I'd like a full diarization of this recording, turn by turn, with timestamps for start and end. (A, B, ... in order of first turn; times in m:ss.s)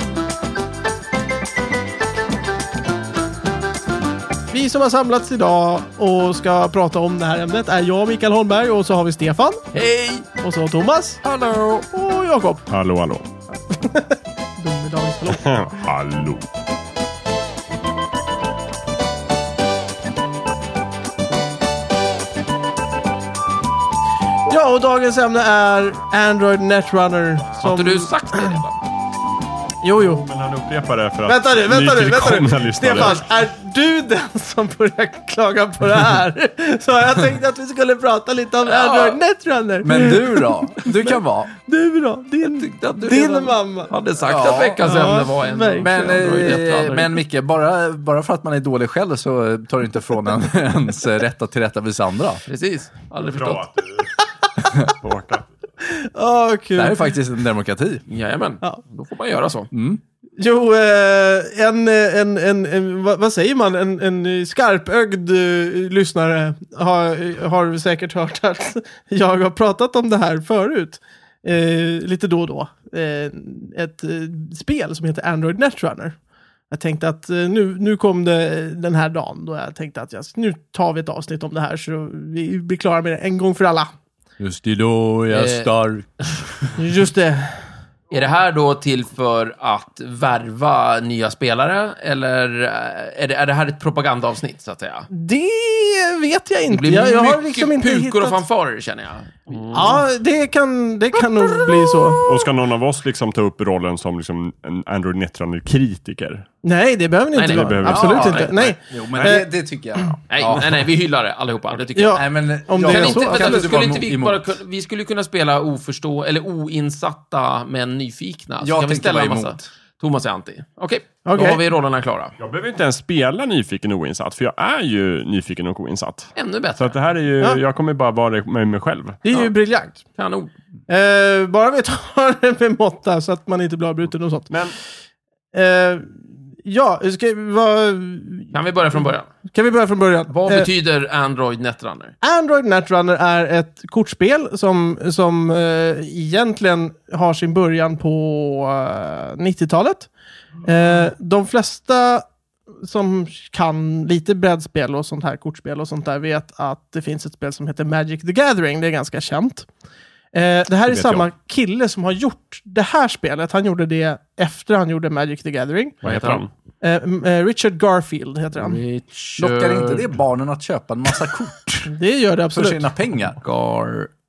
0:04.5-0:09.7 A
0:09.7-0:10.3 B
0:10.4-0:11.2 A
0:11.2-0:11.8 B
0:11.9-0:12.6 A
0:12.7-0:13.3 C
0:13.7-0:15.8 A
0:15.3-0:16.5 C
0:24.5-0:28.6 A
0:27.6-0:28.8 B
0:29.8-0:30.2 A
0:30.0-0:33.3 C
0:31.2-0:43.9 A
0:38.6-0:39.2 B
0:39.8-0:41.5 D
0:42.4-0:47.2 B
0:44.2-0:45.1 D
0:44.8-0:46.6 A
0:45.8-0:52.4 D
0:52.5-0:53.6 B
0:53.2-0:54.1 C
0:54.6-0:54.9 D
0:54.9-0:55.5 C
0:55.8-0:57.1 A
0:56.7-0:58.0 D
0:58.1-0:59.7 B
0:59.7-1:00.0 D
1:00.4-1:16.2 A
1:16.7-1:23.9 A
1:24.4-1:26.8 D
1:25.3-1:25.7 B
1:26.8-1:27.6 A
1:28.1-1:35.1 B
1:35.1-1:38.4 A
1:36.7-1:40.0 B
1:39.5-1:39.9 C
1:39.7-1:42.2 A
1:42.2-1:46.4 C
1:46.6-1:49.5 A
1:47.3-1:48.7 B
1:47.4-1:49.4 C
1:47.8-1:50.8 D
1:50.3-2:02.3 B
1:51.9-1:53.7 A
1:52.2-1:54.5 D
1:58.6-1:59.7 D
2:01.2-2:01.6 A
2:02.4-2:09.4 C
2:06.4-2:07.0 B
2:09.2-2:10.0 A
2:10.2-2:10.5 B
2:10.9-2:14.5 A
2:15.5-2:20.7 A
2:18.5-2:19.3 B
2:20.3-2:22.1 B
2:22.2-2:30.1 A
2:30.6-2:32.2 A
2:32.8-2:39.7 A
2:40.3-2:46.0 A
2:40.9-2:41.3 C
2:46.0-2:46.5 C
2:46.0-2:46.4 B
2:46.8-2:48.8 A
2:48.6-2:50.1 B
2:49.4-2:51.9 D
2:51.8-2:52.8 A
2:52.5-2:53.4 D
2:53.4-2:54.1 B